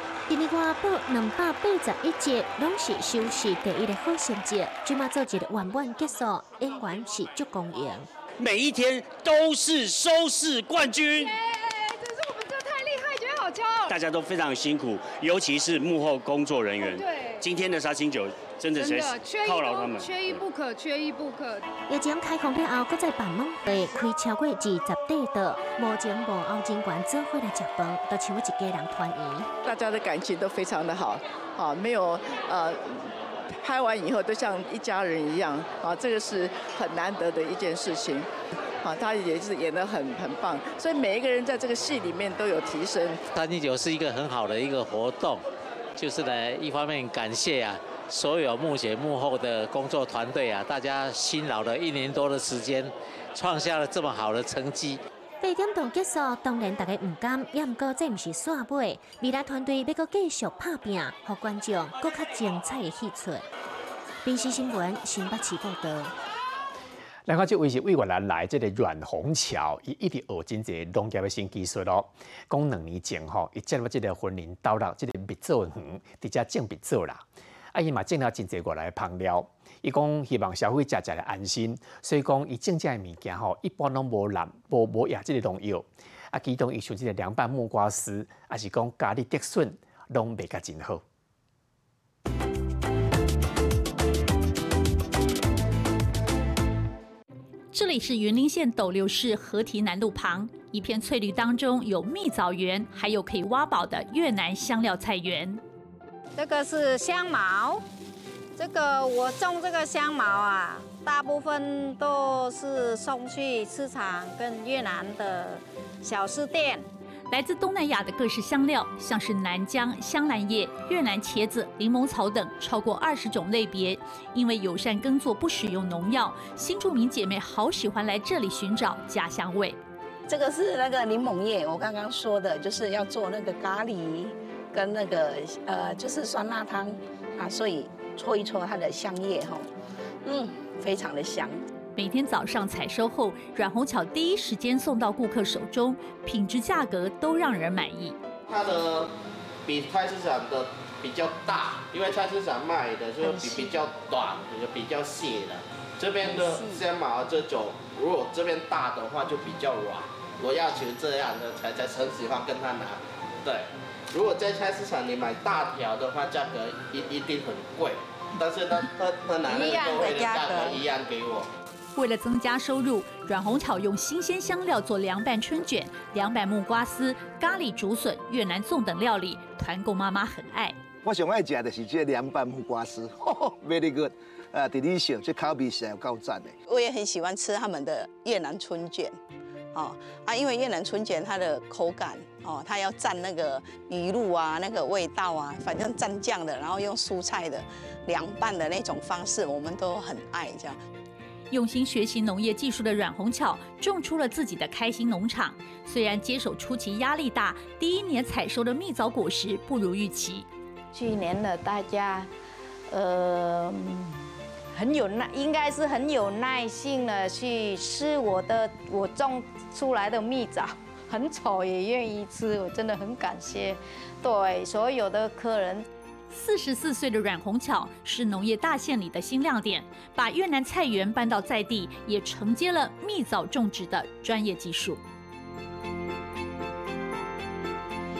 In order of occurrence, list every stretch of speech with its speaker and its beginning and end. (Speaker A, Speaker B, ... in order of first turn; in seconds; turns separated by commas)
Speaker A: 0.3-8.1, Speaker B: 8.4-11.3, Speaker C: 11.2-13.9, Speaker B: 13.9-20.4, Speaker C: 16.8-17.4, Speaker C: 18.7-21.6, Speaker A: 21.9-29.5, Speaker D: 29.6-38.3, Speaker D: 38.8-43.2, Speaker E: 43.3-45.4, Speaker E: 46.0-55.0, Speaker A: 55.4-63.5, Speaker A: 64.2-66.1, Speaker F: 67.3-91.0, Speaker G: 97.7-105.6, Speaker H: 106.4-107.8, Speaker H: 108.6-116.9, Speaker G: 117.3-129.8, Speaker I: 130.3-139.7, Speaker I: 140.3-141.6, Speaker G: 142.0-148.2, Speaker J: 148.5-149.1, Speaker J: 149.7-171.5, Speaker H: 153.2-153.7, Speaker H: 156.3-156.8, Speaker G: 172.0-180.8, Speaker K: 181.0-186.6, Speaker I: 186.7-189.2, Speaker I: 189.7-200.8, Speaker G: 201.5-210.5, Speaker H: 210.9-212.3, Speaker H: 212.9-214.2, Speaker H: 214.7-225.9, Speaker G: 226.3-235.0